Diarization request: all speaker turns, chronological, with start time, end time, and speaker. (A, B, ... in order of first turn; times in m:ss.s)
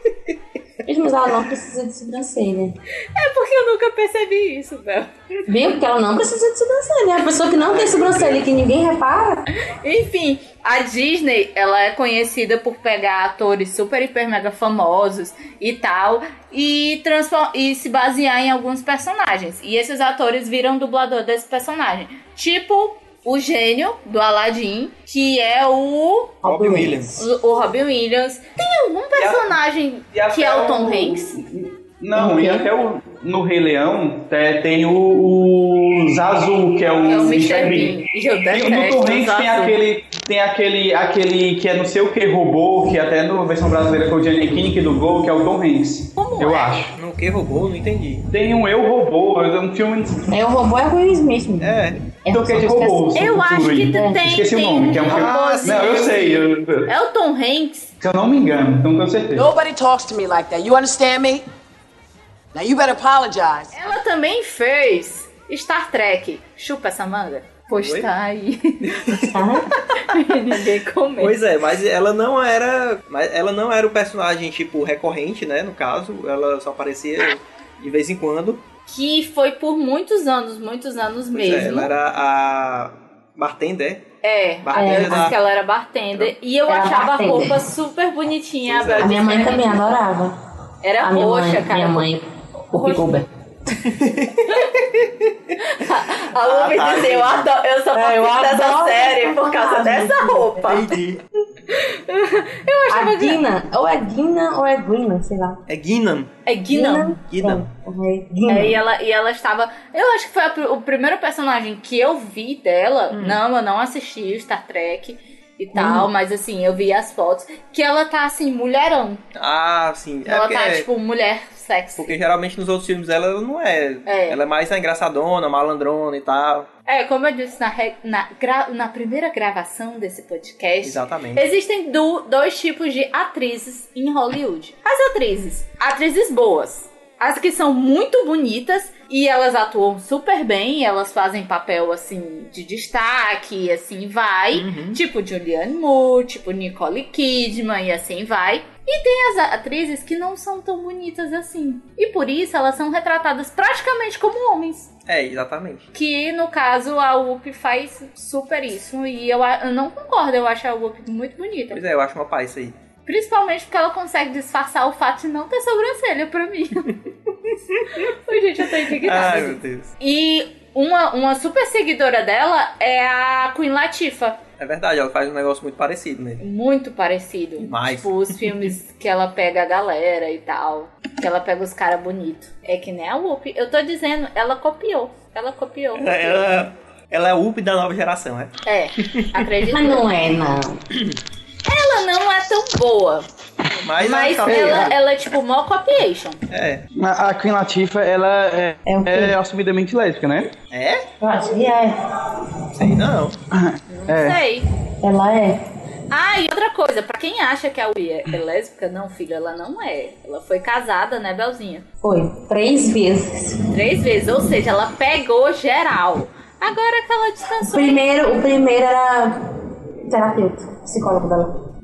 0:00.8-0:02.7 A
0:03.1-0:05.1 B
0:05.5-0:09.5 A
0:07.6-0:08.5 C
0:09.8-0:26.4 B
0:26.4-0:27.2 A
0:26.4-0:27.2 C
0:27.2-0:31.4 B
0:29.2-0:29.5 D
0:30.1-0:38.0 D
0:32.1-0:32.6 A
0:37.0-0:39.8 B
0:38.5-0:46.9 D
0:46.2-0:46.8 B
0:46.9-0:48.2 C
0:48.3-0:50.4 D
0:50.3-0:53.4 A
0:51.6-0:52.0 C
0:52.3-0:56.9 D
0:53.1-0:57.9 B
0:53.9-0:54.2 A
0:55.1-0:56.2 C
0:58.0-0:59.4 D
0:59.3-1:01.4 E
1:02.5-1:03.8 E
1:03.7-1:08.9 B
1:07.7-1:08.1 C
1:08.8-1:10.2 C
1:09.1-1:09.7 A
1:10.0-1:11.4 B
1:11.2-1:18.6 C
1:18.9-1:21.9 B
1:21.3-1:24.0 C
1:24.2-1:30.0 B
1:24.6-1:25.4 C
1:24.7-1:25.3 A
1:26.7-1:27.6 A
1:28.6-1:29.2 C
1:29.0-1:30.4 A
1:30.8-1:32.1 B
1:31.0-1:33.3 A
1:32.7-1:33.0 B
1:33.8-1:35.1 C
1:34.4-1:34.8 B
1:35.6-1:40.9 B
1:36.3-1:37.5 C
1:37.9-1:40.5 A
1:40.6-1:41.2 C
1:41.7-1:43.4 B
1:42.9-1:45.6 A
1:45.7-1:46.3 C
1:46.4-1:47.2 B
1:46.7-1:48.8 A
1:47.3-1:47.7 C
1:48.5-1:59.2 B
1:53.1-1:53.4 C
1:55.8-1:56.1 A
1:59.3-2:00.9 C
2:00.2-2:02.2 B
2:02.0-2:06.7 C
2:04.0-2:04.4 B
2:06.9-2:34.9 B
2:10.8-2:11.4 C
2:24.5-2:25.0 C
2:35.1-2:35.8 C
2:35.9-2:41.8 B
2:41.7-2:42.8 C
2:43.0-2:46.9 B
2:48.0-2:54.4 B
2:48.9-2:49.9 C
2:54.6-2:56.4 C
2:56.4-3:06.5 B
2:57.6-2:58.7 C
3:06.0-3:09.5 C
3:08.6-3:10.1 B
3:09.7-3:10.8 A
3:11.6-3:13.3 B
3:13.8-3:15.0 C
3:14.0-3:16.4 B
3:14.4-3:14.9 D
3:16.5-3:16.9 C
3:16.9-3:20.5 D
3:18.8-3:19.3 A
3:20.7-3:21.0 C
3:21.2-3:22.8 A
3:22.7-3:23.4 C
3:23.5-3:24.4 D
3:23.9-3:24.7 B
3:25.0-3:25.6 A
3:26.1-3:31.8 B
3:32.0-3:33.6 A
3:33.7-3:38.0 B
3:37.6-3:39.5 A
3:40.1-3:41.6 A